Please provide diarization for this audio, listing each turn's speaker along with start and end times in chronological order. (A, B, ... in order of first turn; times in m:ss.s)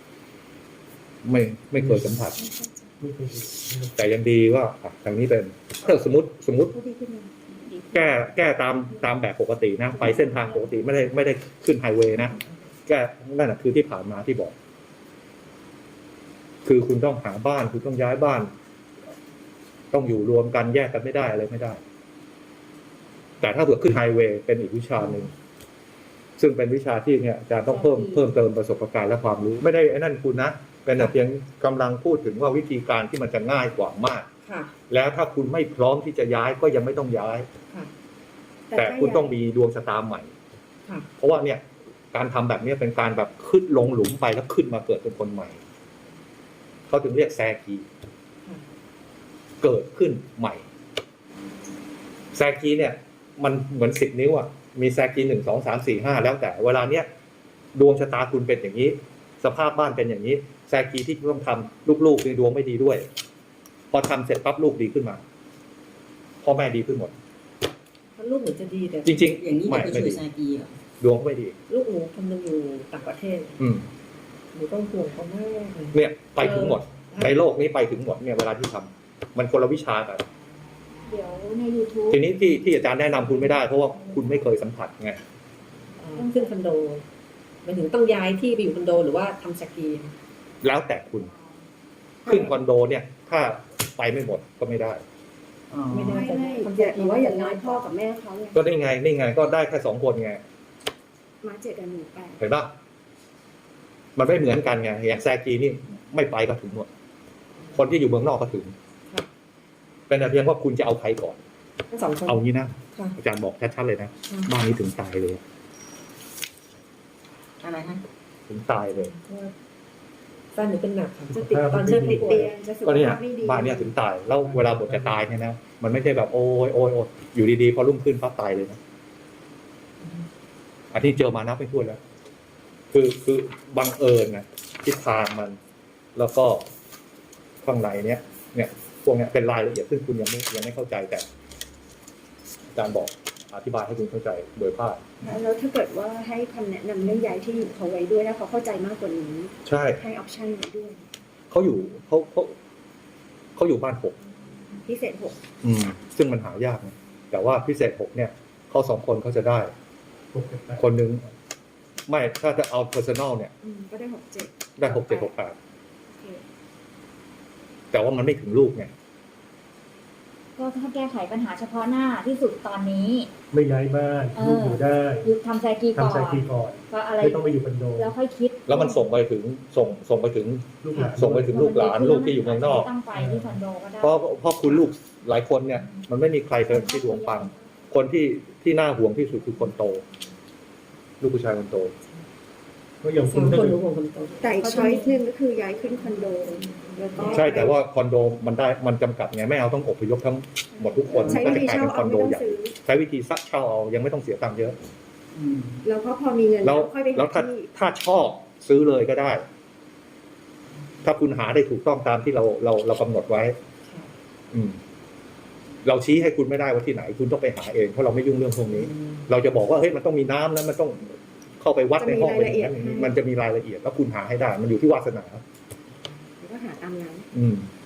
0:01.2-0:02.4 A
0:01.8-0:02.1 B
0:02.4-0:02.9 C
0:03.0-0:04.0 B
0:04.0-0:06.7 A
0:06.7-0:07.9 C
0:07.7-0:08.0 D
0:07.9-0:12.4 A
0:12.9-0:14.5 A
0:16.6-0:18.5 A
0:19.9-0:21.8 A
0:23.4-0:25.3 A
0:25.0-0:25.3 E
0:26.4-0:34.3 A
0:27.6-0:28.2 D
0:34.4-0:34.8 E
0:34.9-0:37.5 A
0:38.7-0:39.3 C
0:38.8-0:40.3 A
0:41.2-0:45.6 A
0:46.9-0:47.9 A
0:49.6-0:50.6 A
0:52.3-0:57.1 A
0:57.8-1:03.1 A
1:03.9-1:05.2 A
1:06.4-1:07.1 A
1:08.2-1:09.2 E
1:09.0-1:10.2 A
1:09.2-1:10.7 F
1:11.0-1:11.6 A
1:11.7-1:13.6 E
1:13.6-1:13.9 A
1:14.5-1:17.5 E
1:15.9-1:20.2 A
1:21.1-1:24.4 D
1:22.1-1:25.2 A
1:26.0-1:27.1 E
1:26.2-1:26.5 D
1:27.6-1:30.1 E
1:30.6-1:31.3 A
1:31.1-1:31.6 D
1:32.2-1:32.6 C
1:32.3-1:35.0 A
1:35.7-1:36.2 F
1:35.9-1:37.8 E
1:36.0-1:38.6 C
1:38.5-1:40.4 A
1:41.4-1:42.4 C
1:42.4-1:42.7 A
1:44.2-1:46.9 A
1:47.7-1:48.8 A
1:50.1-1:51.4 A
1:51.9-1:52.4 E
1:52.3-1:55.4 A
1:57.6-1:58.0 F
1:58.5-1:59.1 A
1:58.9-1:59.5 E
2:00.5-2:02.5 E
2:01.3-2:02.5 B
2:02.0-2:03.9 C
2:02.8-2:08.8 A
2:04.4-2:05.2 B
2:10.0-2:10.3 E
2:10.9-2:12.0 A
2:12.9-2:15.6 A
2:16.2-2:16.6 A
2:17.6-2:21.3 A
2:22.7-2:25.1 A
2:25.2-2:31.0 C
2:29.6-2:30.0 A
2:31.5-2:32.5 A
2:33.6-2:34.2 A
2:34.8-2:35.4 C
2:35.6-2:39.7 A
2:40.3-2:40.8 B
2:40.8-2:41.3 A
2:42.1-2:43.5 A
2:43.6-2:45.3 C
2:44.8-2:45.6 A
2:46.1-2:46.4 C
2:47.9-2:48.9 A
2:50.6-2:53.3 D
2:53.5-2:55.3 B
2:54.4-2:59.1 D
2:55.9-2:58.1 B
2:58.7-3:02.9 A
3:00.8-3:01.6 B
3:01.5-3:04.3 D
3:03.2-3:03.6 B
3:04.0-3:10.0 A
3:06.7-3:07.5 D
3:11.2-3:11.9 A
3:13.0-3:13.8 B
3:13.2-3:15.1 E
3:14.4-3:17.8 C
3:17.3-3:24.8 A
3:21.1-3:22.7 C
3:25.4-3:25.8 F
3:25.8-3:27.7 C
3:26.6-3:29.4 A
3:31.0-3:33.6 A
3:33.8-3:34.1 E
3:34.5-3:34.8 A
3:35.8-3:45.4 A
3:38.8-3:39.3 E
3:42.0-3:43.2 C
3:46.4-3:47.3 C
3:47.3-3:47.7 A